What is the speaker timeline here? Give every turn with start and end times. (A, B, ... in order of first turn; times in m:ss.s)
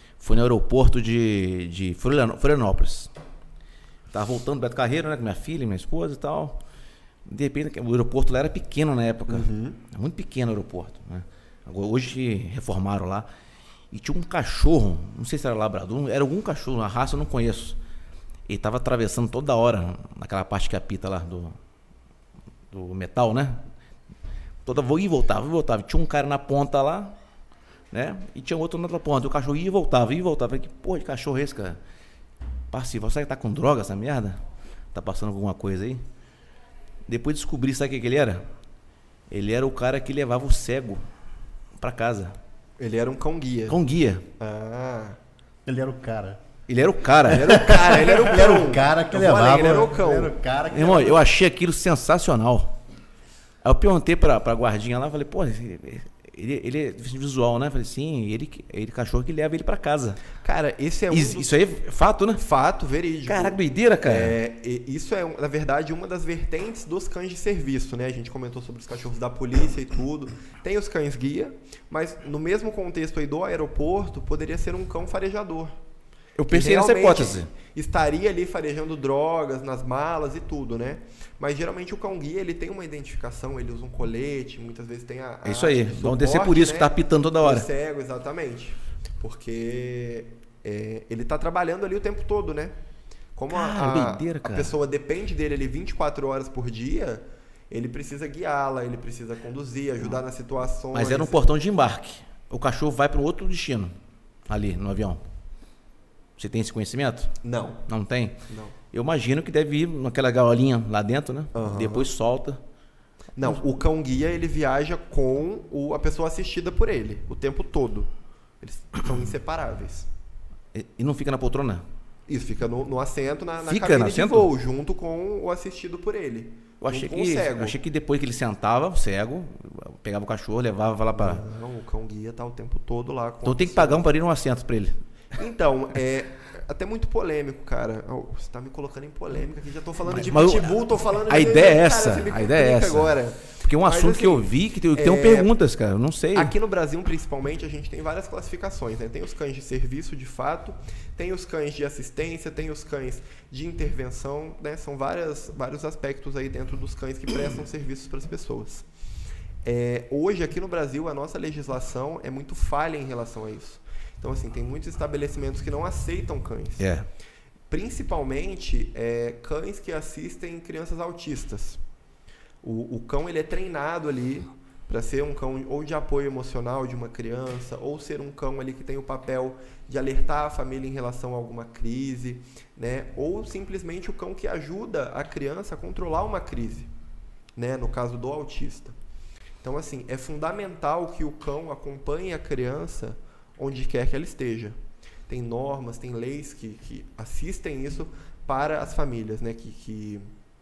0:00.2-0:03.1 A
0:04.1-0:06.6 A
0:07.2-0:13.3 A
0:09.3-0:09.8 B
0:13.9-0:17.8 A
0:18.5-0:21.6 A
0:22.7-0:23.6 A
0:24.6-0:27.2 A
0:27.9-0:31.8 A
0:32.7-0:34.4 A
0:34.9-0:36.0 A
0:37.1-0:38.4 A
0:39.3-0:41.0 A
0:41.8-0:42.4 A
0:42.8-0:43.8 B
0:43.7-0:44.2 A
0:44.4-0:45.2 B
0:45.6-0:46.4 C
0:46.7-0:48.0 A
0:47.3-0:50.3 B
0:47.3-0:51.2 C
0:50.7-0:52.7 A
0:53.6-1:00.3 A
1:00.4-1:01.6 B
1:01.1-1:02.4 A
1:02.4-1:15.7 B
1:03.2-1:04.4 A
1:16.4-1:17.5 A
1:16.5-1:32.7 B
1:25.4-1:27.7 A
1:33.4-1:41.5 B
1:33.5-1:34.7 A
1:40.9-1:43.9 A
1:44.5-1:45.2 A
1:46.4-1:47.4 A
1:47.4-1:47.8 B
1:47.9-1:52.6 A
1:48.5-1:48.7 B
1:51.5-1:52.1 B
1:53.4-1:58.1 B
1:58.6-2:00.1 B
2:00.7-2:01.8 A
2:02.3-2:07.8 B
2:03.6-2:04.5 A
2:06.8-2:11.4 A
2:11.1-2:14.1 B
2:13.4-2:15.0 A
2:15.3-2:25.5 B
2:20.1-2:26.5 A
2:26.3-2:38.8 B
2:39.6-2:46.9 B
2:46.8-2:47.1 A
2:47.7-2:51.8 B
2:52.6-3:06.9 B
3:07.6-3:08.9 B
3:09.6-3:14.8 B
3:15.3-3:20.3 B